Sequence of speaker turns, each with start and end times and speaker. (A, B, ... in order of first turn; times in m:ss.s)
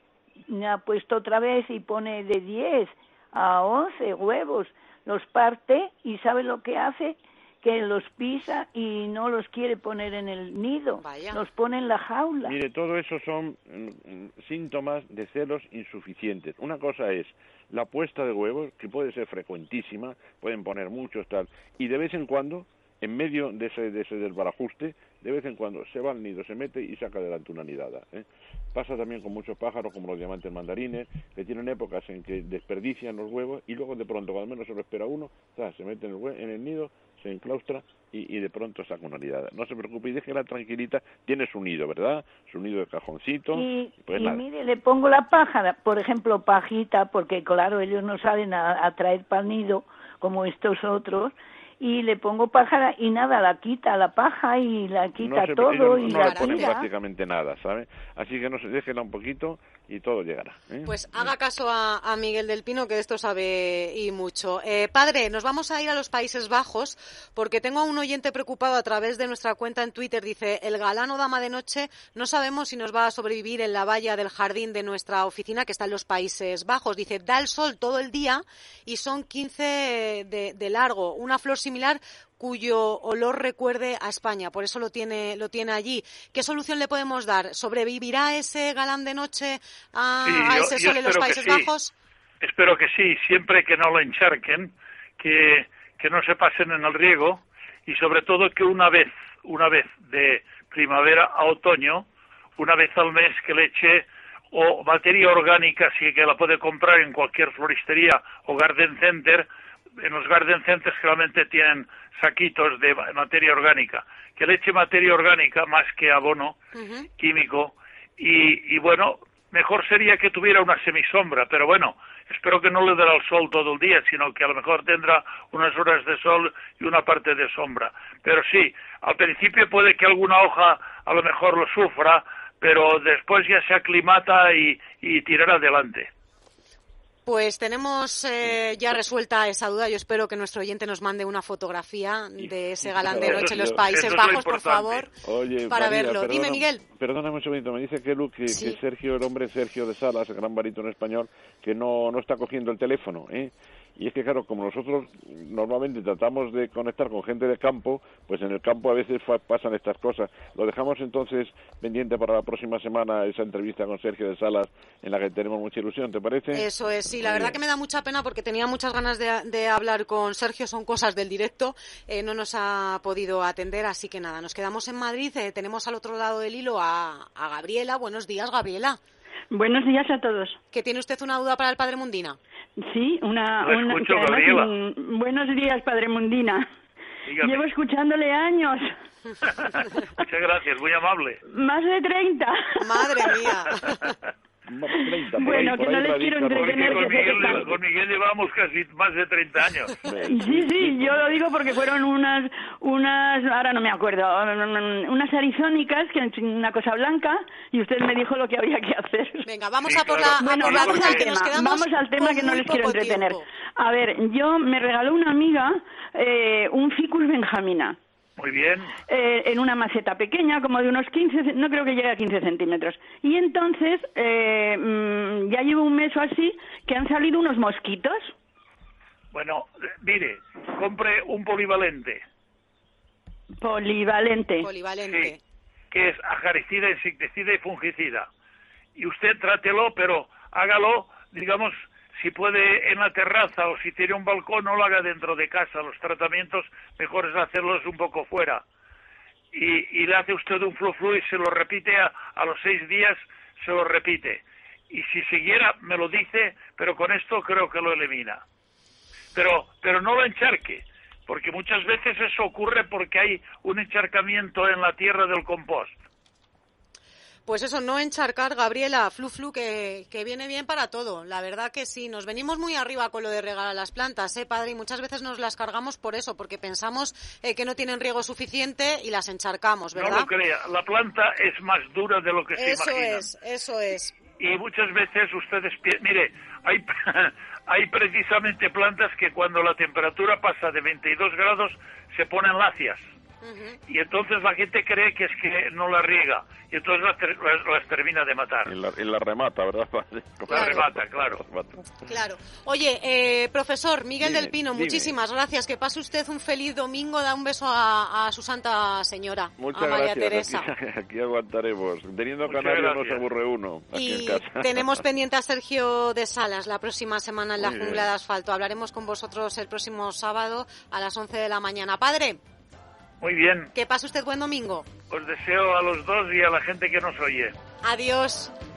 0:00.5-0:12.6 A
0:11.0-0:11.4 B
0:12.4-0:44.4 C
0:43.5-0:56.7 A
0:55.2-1:01.3 C
0:56.0-0:56.8 B
1:00.8-1:31.9 B
1:30.2-1:31.7 D
1:32.4-1:42.0 D
1:42.6-1:49.5 D
1:50.0-1:56.6 D
1:56.7-1:57.1 B
1:57.2-2:16.1 D
2:17.3-2:25.1 B
2:22.4-2:23.8 C
2:23.1-2:25.1 D
2:25.2-2:46.7 C
2:25.7-2:26.8 B
2:28.5-2:28.8 B
2:46.5-2:59.0 B
2:47.2-2:47.6 C
2:59.5-3:00.6 E
3:00.7-3:02.4 B
3:02.8-3:06.7 E
3:03.6-3:04.7 D
3:07.3-3:07.6 D
3:07.4-3:08.9 E
3:09.5-3:11.4 D
3:11.5-3:13.3 E
3:12.8-3:14.1 B
3:13.8-3:14.1 D
3:14.7-3:17.8 C
3:15.1-3:17.8 E
3:15.4-3:15.8 D
3:16.6-3:20.0 D
3:20.0-3:21.4 C
3:20.3-3:29.5 E
3:29.5-3:33.4 B
3:29.8-3:31.5 D
3:30.4-3:38.0 E
3:38.4-3:39.0 D
3:39.1-3:48.3 E
3:49.3-3:52.2 D
3:53.6-3:54.7 E
3:54.6-3:55.4 B
3:55.0-3:55.4 D
3:55.9-3:58.3 D
3:59.0-4:08.6 D
4:09.5-4:18.4 D
4:19.4-4:25.9 D
4:27.5-4:40.3 B
4:40.0-4:43.3 D
4:42.6-4:44.1 B
4:44.4-4:53.1 D
4:53.4-4:53.8 B
4:53.9-4:58.8 D
4:58.7-5:02.1 C
5:00.5-5:01.4 D
5:00.5-5:00.8 B
5:02.1-5:10.7 B
5:04.2-5:05.2 C
5:09.6-5:15.1 C
5:12.5-5:13.2 D
5:13.9-5:22.4 B
5:17.6-5:18.1 C
5:23.2-5:23.7 D
5:23.8-5:24.9 B
5:25.1-5:27.6 D
5:27.8-5:28.5 B